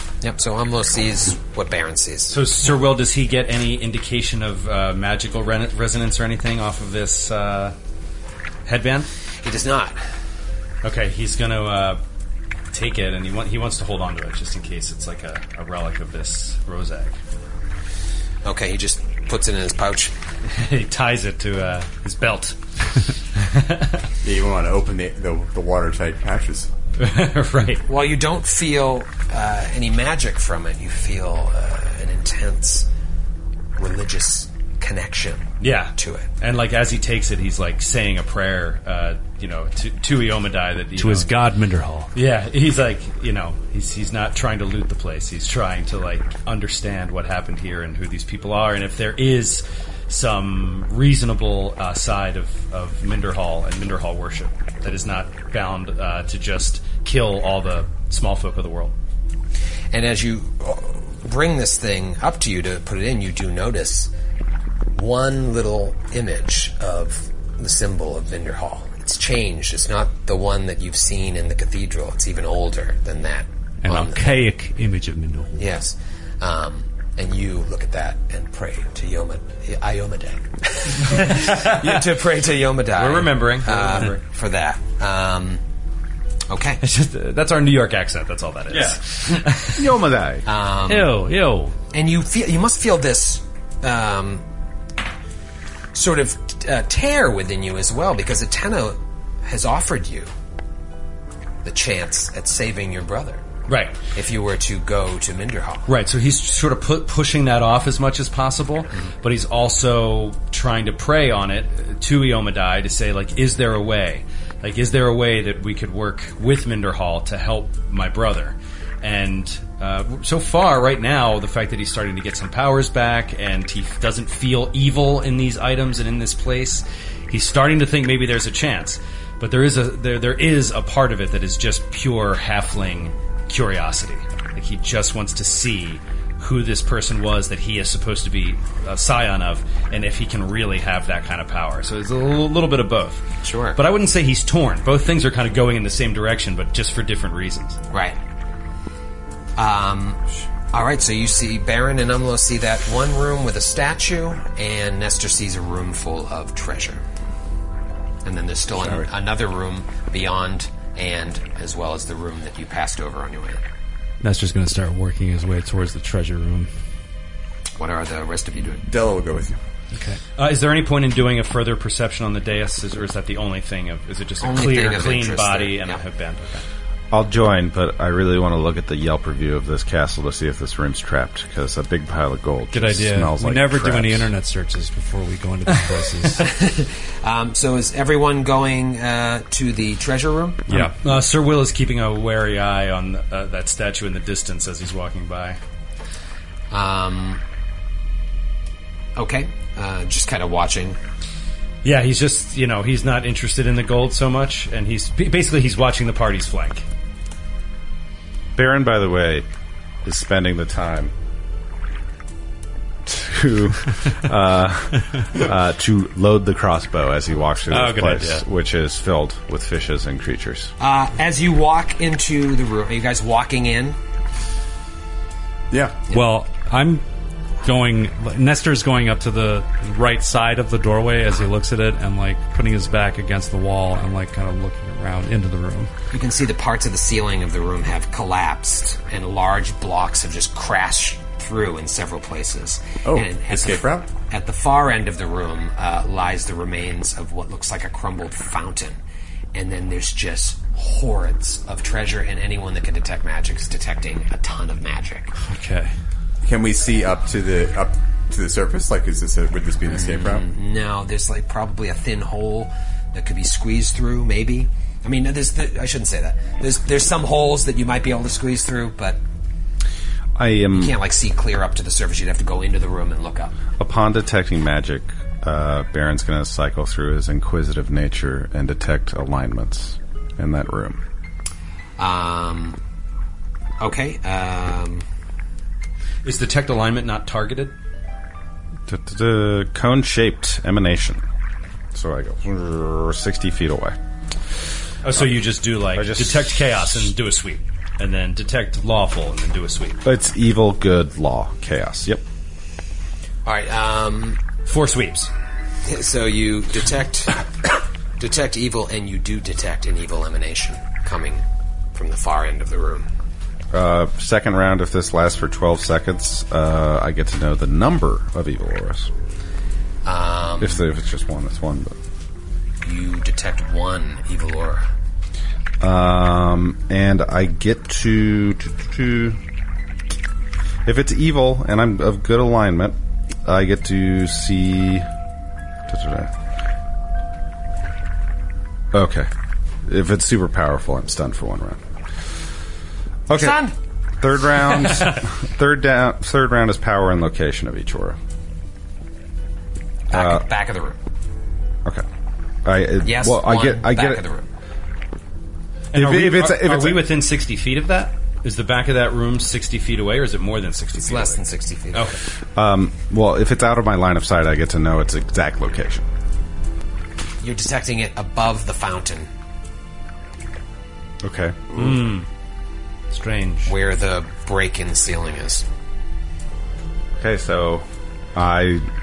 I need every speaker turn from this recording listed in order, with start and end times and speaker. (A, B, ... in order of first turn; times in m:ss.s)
0:00.2-0:02.4 A
0:02.3-0:07.7 B
0:08.6-0:09.1 B
0:09.4-0:10.0 A
0:10.8-0:12.0 B
0:12.7-0:17.2 B
0:18.4-0:20.1 A
0:20.5-0:22.6 B
0:23.4-0:23.9 B
0:24.2-0:26.7 C
0:27.0-0:27.8 B
0:27.9-0:32.9 A
0:33.8-0:36.3 A
0:35.6-0:41.3 B
0:41.0-0:42.1 D
0:42.1-0:58.9 B
0:59.9-1:04.1 A
1:04.9-1:14.4 A
1:13.8-1:15.6 D
1:15.6-1:25.6 A
1:21.2-1:22.0 B
1:23.0-1:24.2 B
1:26.5-1:26.8 A
1:26.8-1:29.9 B
1:29.7-1:30.4 E
1:30.4-1:31.2 A
1:30.9-1:31.7 D
1:31.9-1:34.4 A
1:35.9-1:40.3 A
1:41.6-1:43.4 A
1:43.7-1:43.9 B
1:44.1-1:45.9 A
1:45.9-2:23.2 B
2:23.4-2:23.8 A
2:23.8-2:27.8 B
2:27.9-2:28.2 A
2:29.6-2:30.2 A
2:30.7-2:37.0 A
2:38.2-2:43.6 A
2:44.2-2:46.7 D
2:47.8-2:48.8 A
2:48.9-2:49.6 C
2:49.9-2:50.2 D
2:50.4-2:56.6 B
2:54.4-2:56.0 A
2:57.1-3:04.3 E
3:02.7-3:06.5 D
3:06.4-3:10.6 A
3:10.7-3:11.0 D
3:11.0-3:15.6 B
3:16.7-3:17.4 A
3:19.2-3:21.0 A
3:21.8-3:26.8 B
3:28.5-3:29.4 E
3:30.0-3:31.1 E
3:33.0-3:40.7 E
3:37.7-3:38.4 D
3:40.8-3:44.0 A
3:45.7-3:46.0 C
3:46.1-3:47.0 D
3:47.6-3:55.9 D
3:56.1-4:09.0 A
4:03.0-4:04.1 C
4:09.5-4:15.3 A
4:15.4-4:15.9 D
4:16.4-4:20.4 C
4:19.9-4:29.2 A
4:30.4-4:31.0 E
4:30.7-4:33.5 A
4:33.8-4:41.0 E
4:42.0-4:42.8 A
4:43.8-4:45.0 A
4:46.2-4:47.7 B
4:48.9-4:51.2 E
4:51.9-4:54.0 E
4:55.0-5:00.0 B
4:55.9-4:56.8 E
5:00.0-5:02.2 E
5:03.4-5:04.4 A
5:04.6-5:05.3 B
5:05.8-5:07.5 A
5:08.2-5:13.1 A
5:13.7-5:19.1 E
5:20.0-5:20.8 A
5:20.6-5:21.9 E
5:22.8-5:24.9 A
5:25.8-5:29.4 E
5:30.8-5:35.0 E
5:35.9-5:36.3 E
5:38.9-5:39.3 E
5:39.8-5:41.8 E
5:43.3-5:43.6 E
5:43.3-5:43.7 A
5:44.2-5:48.2 E
5:50.1-5:51.0 A
5:50.1-5:50.4 E
5:52.6-5:54.2 E
5:53.0-5:54.4 A
5:55.9-6:01.4 B
5:55.9-5:57.1 E
6:01.0-6:02.2 A
6:01.9-6:02.2 B
6:02.5-6:06.0 E
6:07.4-6:09.3 A
6:11.2-6:11.6 E
6:11.7-6:12.2 B
6:13.1-6:13.7 B
6:13.6-6:15.6 A
6:17.2-6:18.9 E